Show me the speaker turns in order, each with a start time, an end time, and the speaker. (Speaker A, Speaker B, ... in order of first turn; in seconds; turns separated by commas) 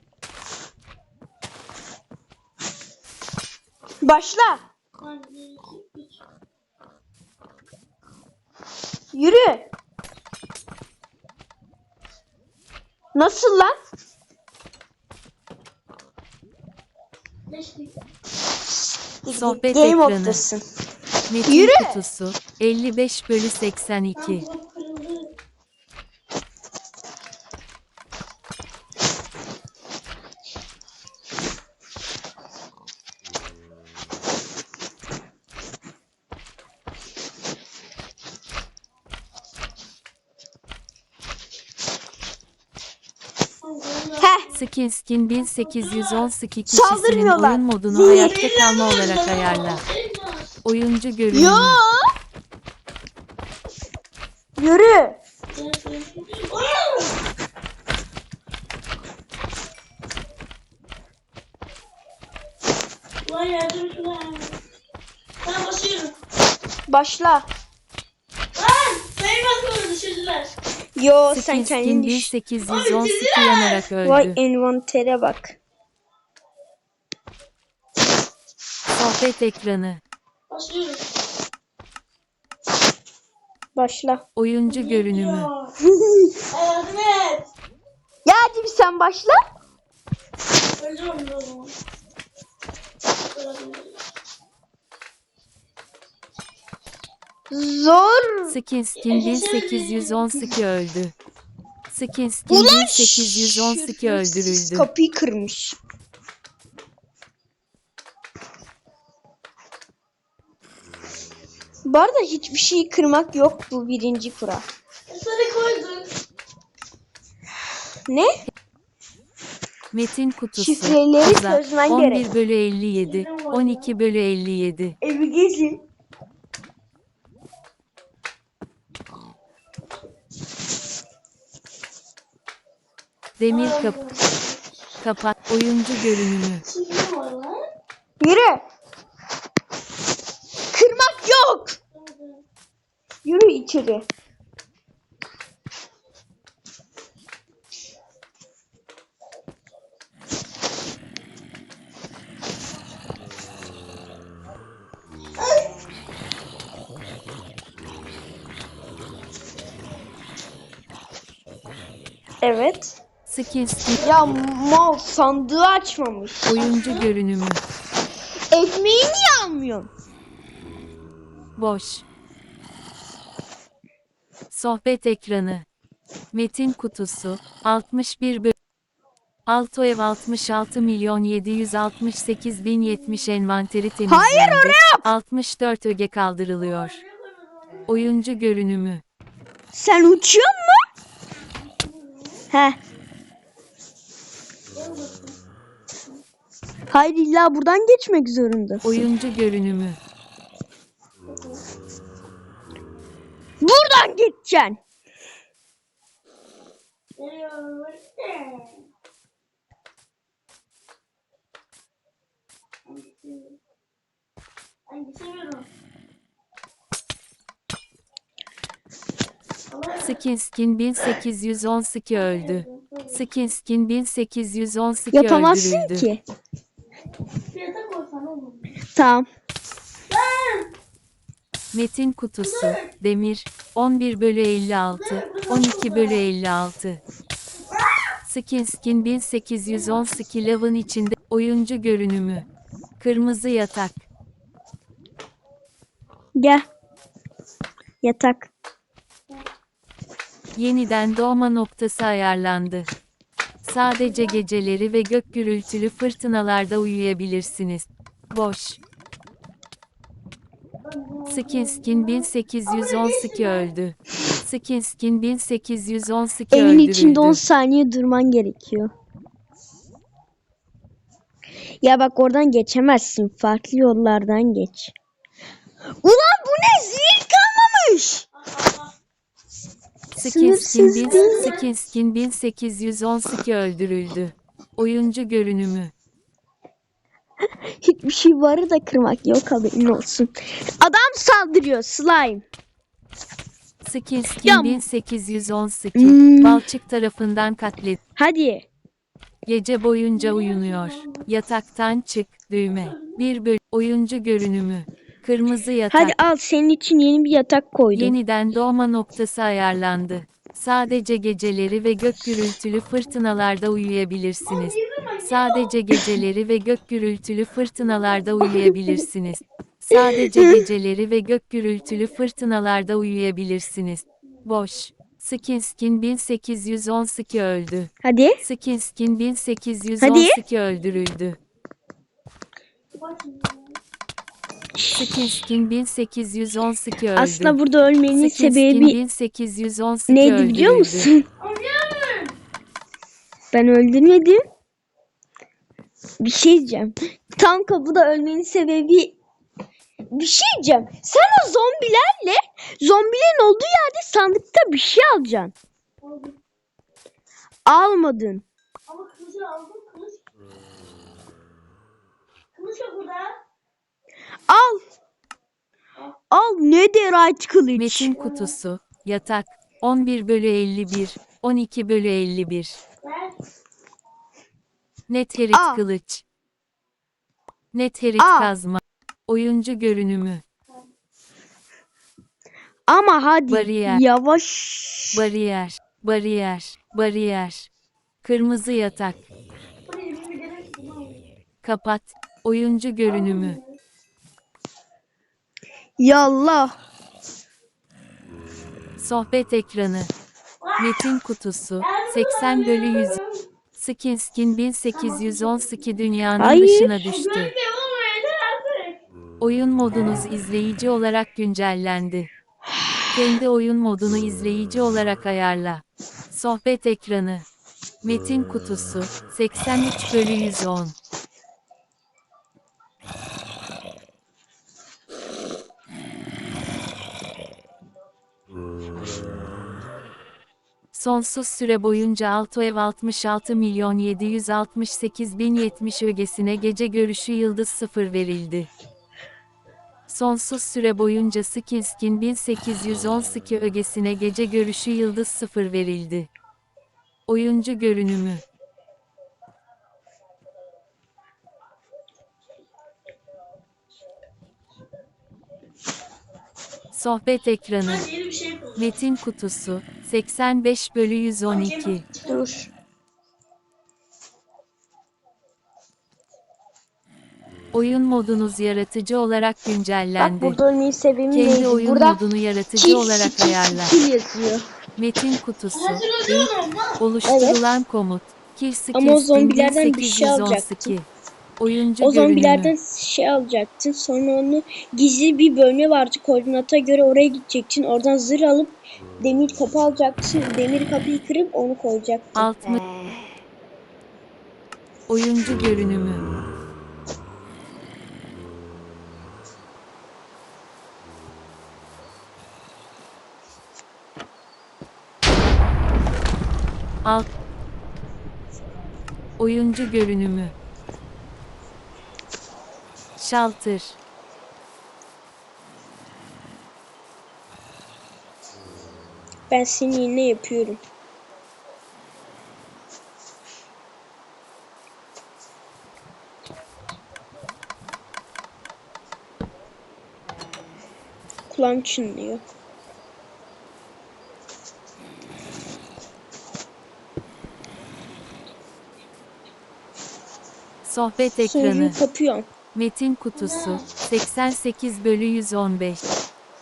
Speaker A: 4.0-4.6, Speaker B: 5.0-6.2, Speaker A: 9.1-9.7, Speaker A: 13.1-13.7, Speaker B: 17.5-17.9, Speaker A: 19.2-20.6, Speaker C: 19.3-20.4, Speaker C: 21.3-24.4, Speaker A: 21.4-22.0, Speaker B: 24.1-25.3, Speaker B: 43.6-44.6, Speaker A: 44.2-44.5, Speaker C: 44.5-49.8, Speaker B: 45.4-46.3, Speaker A: 46.7-48.5, Speaker B: 47.9-50.6, Speaker C: 50.6-51.8, Speaker A: 51.3-52.0, Speaker A: 54.6-55.2, Speaker B: 55.5-57.1, Speaker B: 63.2-64.6, Speaker B: 65.4-66.2, Speaker A: 66.9-67.5, Speaker B: 68.5-70.5, Speaker A: 71.0-72.3, Speaker C: 71.3-74.4, Speaker B: 72.6-73.8, Speaker A: 74.0-75.6, Speaker C: 78.9-80.0, Speaker B: 80.5-81.0, Speaker A: 83.7-84.2, Speaker C: 84.3-85.5, Speaker B: 84.7-85.7, Speaker A: 85.8-86.3, Speaker B: 86.5-87.5, Speaker A: 88.2-89.4, Speaker B: 90.8-91.7, Speaker B: 93.3-94.0, Speaker A: 97.5-98.5, Speaker C: 98.5-101.1, Speaker B: 99.0-100.2, Speaker C: 101.9-104.9, Speaker A: 102.5-105.8, Speaker A: 111.8-114.7, Speaker B: 115.1-116.1, Speaker C: 119.9-125.0, Speaker A: 120.5-122.3, Speaker B: 123.0-123.9, Speaker A: 125.0-125.8, Speaker C: 133.4-134.0, Speaker B: 133.5-134.6, Speaker C: 135.0-136.6, Speaker B: 136.6-137.6, Speaker A: 138.2-138.6, Speaker A: 140.7-141.8, Speaker B: 141.9-142.4, Speaker A: 143.2-144.1, Speaker B: 155.4-155.7, Speaker A: 162.4-163.0, Speaker C: 163.3-164.3, Speaker A: 164.0-166.6, Speaker C: 166.4-167.6, Speaker B: 166.6-167.1, Speaker A: 168.5-169.9, Speaker C: 171.6-172.0, Speaker C: 174.5-175.7, Speaker C: 176.3-178.5, Speaker C: 179.4-187.0, Speaker B: 182.8-183.3, Speaker A: 184.1-185.1, Speaker B: 186.6-188.1, Speaker C: 187.9-189.0, Speaker A: 189.7-190.8, Speaker B: 191.6-192.5, Speaker A: 192.5-192.8, Speaker B: 194.7-195.4, Speaker A: 196.9-199.1, Speaker C: 198.8-200.0, Speaker B: 201.3-201.6, Speaker A: 203.6-204.8, Speaker B: 207.2-208.8, Speaker B: 212.8-213.6, Speaker B: 214.9-215.7, Speaker B: 219.7-220.2, Speaker C: 220.0-226.1, Speaker B: 222.1-223.2, Speaker A: 225.1-226.2, Speaker B: 227.5-228.8, Speaker A: 228.9-229.2, Speaker B: 230.1-230.7, Speaker C: 231.7-237.0, Speaker B: 232.4-232.9, Speaker B: 234.9-236.2, Speaker C: 238.2-242.4, Speaker B: 239.7-240.0, Speaker C: 243.0-244.1, Speaker A: 246.3-246.7, Speaker A: 248.0-248.5, Speaker C: 250.5-252.9, Speaker C: 253.6-258.8, Speaker B: 254.0-254.4, Speaker B: 260.8-263.7, Speaker C: 261.3-267.4, Speaker A: 266.5-268.9, Speaker A: 271.8-274.9, Speaker A: 276.0-278.2, Speaker B: 278.3-278.9, Speaker C: 280.1-285.9, Speaker A: 280.2-281.5, Speaker B: 281.0-281.7, Speaker A: 287.7-292.4, Speaker C: 293.8-298.0, Speaker A: 294.4-294.8, Speaker A: 295.9-296.6, Speaker A: 298.1-298.7, Speaker C: 299.4-306.1, Speaker B: 300.1-301.3, Speaker B: 302.7-303.2, Speaker A: 305.9-308.1, Speaker C: 307.9-327.9, Speaker B: 314.5-315.7, Speaker A: 315.9-316.2, Speaker B: 318.0-318.2, Speaker A: 318.4-318.7, Speaker A: 319.9-320.6, Speaker A: 328.0-328.4, Speaker C: 328.4-331.4, Speaker A: 330.0-330.4, Speaker B: 333.0-333.8, Speaker C: 334.9-337.6, Speaker A: 337.1-339.0, Speaker C: 338.1-341.1, Speaker A: 340.1-341.2, Speaker B: 341.4-342.4, Speaker A: 343.5-344.4, Speaker A: 346.2-349.2, Speaker A: 350.1-355.5, Speaker B: 356.0-356.4, Speaker A: 357.6-358.4, Speaker B: 358.9-360.2, Speaker B: 362.5-363.4, Speaker A: 364.5-364.8, Speaker A: 366.3-368.1, Speaker C: 367.8-372.8, Speaker B: 368.1-368.6, Speaker B: 373.0-373.4, Speaker C: 375.1-376.2, Speaker A: 375.5-375.8, Speaker C: 377.7-380.4, Speaker A: 378.2-378.5, Speaker A: 382.9-385.2, Speaker C: 383.5-384.0, Speaker C: 385.1-387.7, Speaker C: 388.2-389.2, Speaker B: 389.9-391.2, Speaker C: 391.6-393.6, Speaker B: 393.0-393.8, Speaker A: 396.0-396.7, Speaker C: 399.0-400.1, Speaker B: 400.6-401.1, Speaker C: 400.8-403.2, Speaker B: 401.8-403.4, Speaker C: 403.8-407.5, Speaker B: 404.9-405.8, Speaker A: 406.4-407.0, Speaker B: 407.0-409.0, Speaker C: 409.4-412.3, Speaker C: 413.1-417.4, Speaker C: 418.0-420.9, Speaker C: 430.9-438.7, Speaker C: 440.1-446.3, Speaker C: 447.3-448.4, Speaker C: 456.9-458.1, Speaker B: 457.8-458.9, Speaker C: 458.8-462.1, Speaker B: 461.5-462.4, Speaker A: 462.2-462.7, Speaker C: 467.7-470.6, Speaker A: 470.2-472.2, Speaker C: 471.3-473.9, Speaker A: 472.8-474.6, Speaker C: 474.9-482.7, Speaker B: 475.7-477.0, Speaker A: 477.2-477.6, Speaker A: 478.9-480.9, Speaker A: 482.0-492.5, Speaker C: 492.3-492.8, Speaker C: 495.1-496.2, Speaker C: 509.4-510.5, Speaker C: 513.2-514.0, Speaker A: 519.5-520.8, Speaker A: 531.5-532.4, Speaker C: 540.8-542.0, Speaker A: 541.4-542.5, Speaker C: 542.7-546.0, Speaker B: 543.3-543.9